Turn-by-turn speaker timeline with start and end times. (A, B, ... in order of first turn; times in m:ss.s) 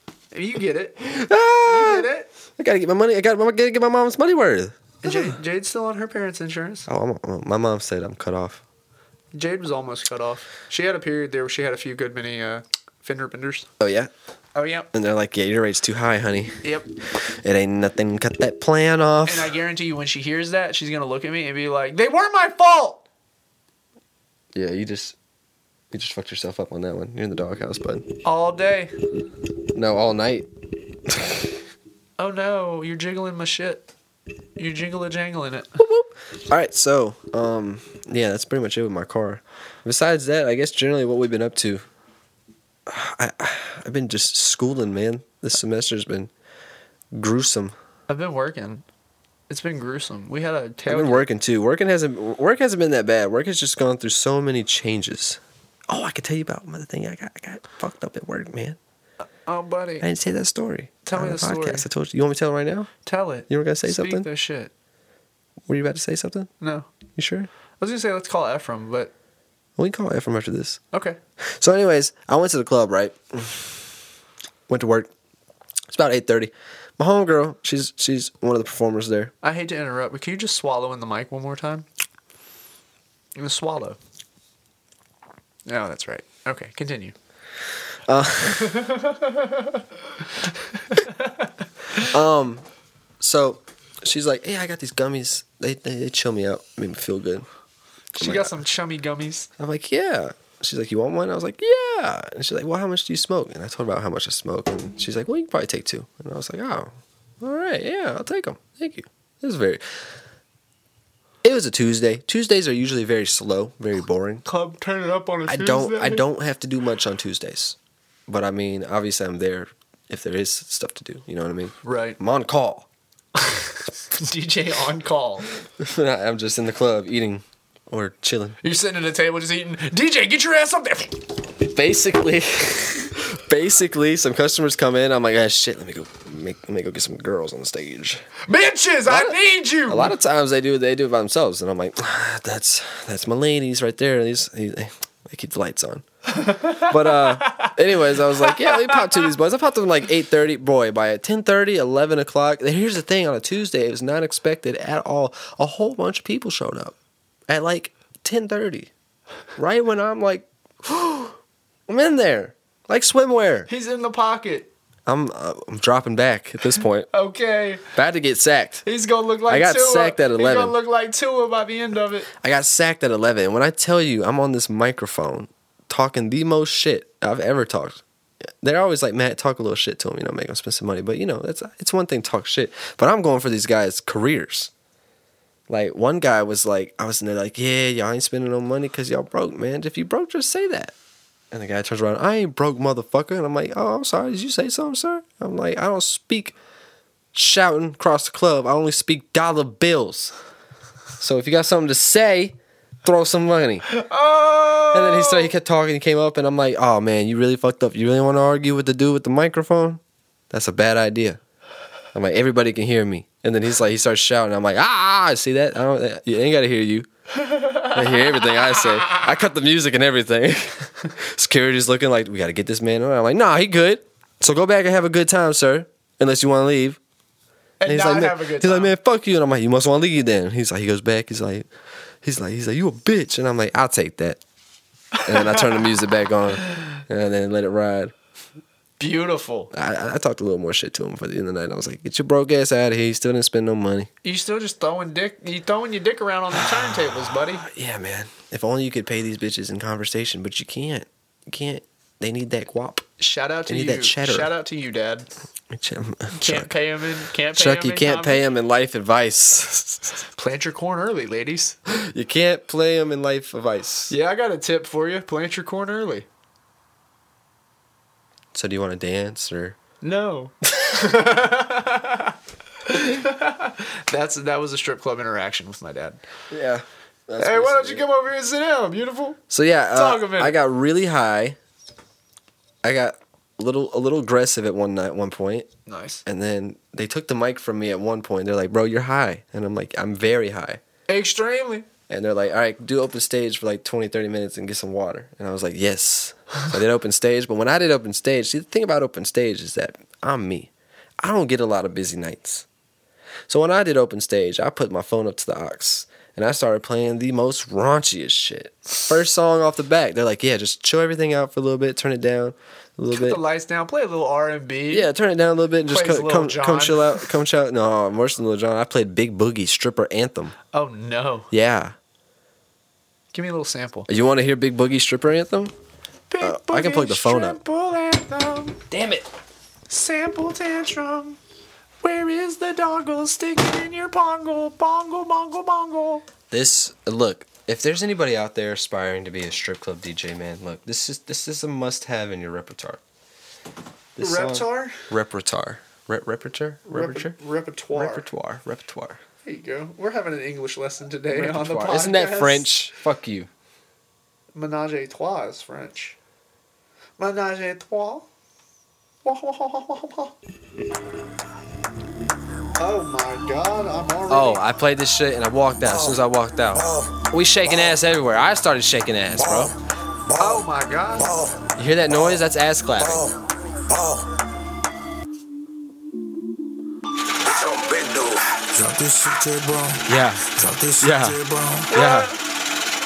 0:00.3-0:01.0 A
0:01.0-0:05.4 B
0:01.6-0:02.3 A
0:05.0-0:06.9 A
0:06.9-0:08.6 B
0:09.3-0:13.7 A
0:13.8-0:14.1 B
0:14.5-0:14.9 A
0:14.9-0:16.6 B
0:16.6-0:16.9 A
0:17.4-0:19.5 B
0:19.2-0:23.0 A
0:24.5-0:25.1 B
0:25.9-0:28.0 B
0:28.2-0:28.9 A
0:29.7-0:30.5 B
0:31.1-0:31.5 B
0:32.2-0:33.9 A
0:34.6-0:35.8 A
0:35.8-0:41.8 B
0:42.9-0:46.3 B
0:47.1-0:47.7 B
0:48.1-0:48.8 A
0:49.5-0:51.3 A
0:50.9-0:58.8 B
0:59.2-1:00.1 A
1:00.0-1:02.9 B
1:01.0-1:01.9 A
1:03.0-1:04.7 A
1:03.5-1:04.3 B
1:05.7-1:06.5 B
1:06.6-1:06.9 A
1:07.2-1:07.5 B
1:07.8-1:09.1 A
1:09.8-1:10.8 B
1:10.9-1:11.2 A
1:11.5-1:13.8 B
1:14.7-1:15.1 B
1:15.9-1:19.3 B
1:19.4-1:21.8 A
1:23.4-1:24.0 A
1:25.6-1:27.1 A
1:28.1-1:28.9 B
1:28.6-1:29.7 A
1:30.8-1:32.1 A
1:32.0-1:32.6 B
1:33.2-1:37.5 B
1:38.1-1:39.5 A
1:38.2-1:38.6 B
1:39.6-1:49.8 B
1:51.4-1:54.4 B
1:54.4-1:56.2 A
1:55.5-2:02.9 B
2:01.8-2:02.2 A
2:03.4-2:05.5 A
2:05.8-2:08.6 B
2:08.6-2:11.2 A
2:11.6-2:18.2 B
2:18.5-2:20.2 A
2:19.1-2:36.9 B
2:26.3-2:27.8 A
2:28.4-2:29.3 A
2:37.5-2:38.9 B
2:39.6-2:41.4 B
2:41.9-2:43.7 B
2:43.7-2:44.7 A
2:45.0-2:47.1 B
2:47.1-2:47.8 A
2:47.9-2:48.8 B
2:48.8-2:52.3 A
2:49.5-2:50.8 B
2:52.4-2:58.0 B
2:58.6-3:04.7 B
3:05.7-3:10.9 B
3:11.5-3:16.6 B
3:17.3-3:20.3 B
3:21.2-3:23.8 B
3:23.9-3:25.5 A
3:24.9-3:31.4 B
3:32.1-3:37.1 B
3:37.4-3:39.3 A
3:37.9-3:47.0 B
3:47.8-3:48.9 A
3:47.8-3:51.7 B
3:52.2-3:54.4 B
3:55.2-3:55.8 A
3:55.2-3:58.1 B
3:56.6-3:57.0 A
3:59.0-3:59.7 A
3:59.7-4:04.1 B
4:04.2-4:07.6 A
4:07.4-4:13.1 B
4:13.2-4:15.3 A
4:13.7-4:14.5 B
4:15.7-4:16.7 B
4:16.3-4:18.4 A
4:17.5-4:20.2 B
4:20.4-4:21.8 A
4:21.9-4:24.1 B
4:24.1-4:26.2 A
4:28.5-4:29.8 B
4:30.0-4:36.2 A
4:36.5-4:38.0 B
4:37.4-4:39.4 A
4:39.5-4:41.6 B
4:39.9-4:40.6 A
4:42.8-4:45.7 B
4:45.9-4:46.2 A
4:46.2-4:50.8 B
4:51.1-4:51.8 A
4:52.1-5:02.6 B
5:03.5-5:13.4 B
5:13.1-5:15.1 A
5:14.9-5:20.5 B
5:15.9-5:17.3 A
5:20.7-5:21.5 A
5:21.5-5:21.9 B
5:23.3-5:24.1 A
5:24.1-5:25.7 B
5:26.3-5:28.8 A
5:26.4-5:27.6 B
5:28.9-5:29.3 B
5:29.9-5:31.4 A
5:32.0-5:36.2 A
5:36.5-5:43.0 B
5:44.2-5:47.4 B
5:44.2-5:45.0 A
5:46.9-5:48.3 A
5:47.9-5:49.2 B
5:49.4-5:52.7 A
5:51.3-5:53.5 B
5:54.5-5:56.2 A
5:57.2-5:58.2 A
5:59.2-6:00.3 A
6:02.8-6:04.6 A
6:04.3-6:09.7 B
6:05.8-6:08.0 C
6:09.3-6:09.7 C
6:10.3-6:10.6 C
6:10.4-6:11.3 A
6:11.2-6:12.4 C
6:11.8-6:13.3 B
6:13.0-6:13.3 C
6:13.9-6:14.3 C
6:17.4-6:22.0 C
6:20.1-6:20.4 B
6:21.0-6:21.4 B
6:21.9-6:22.3 B
6:21.9-6:22.4 A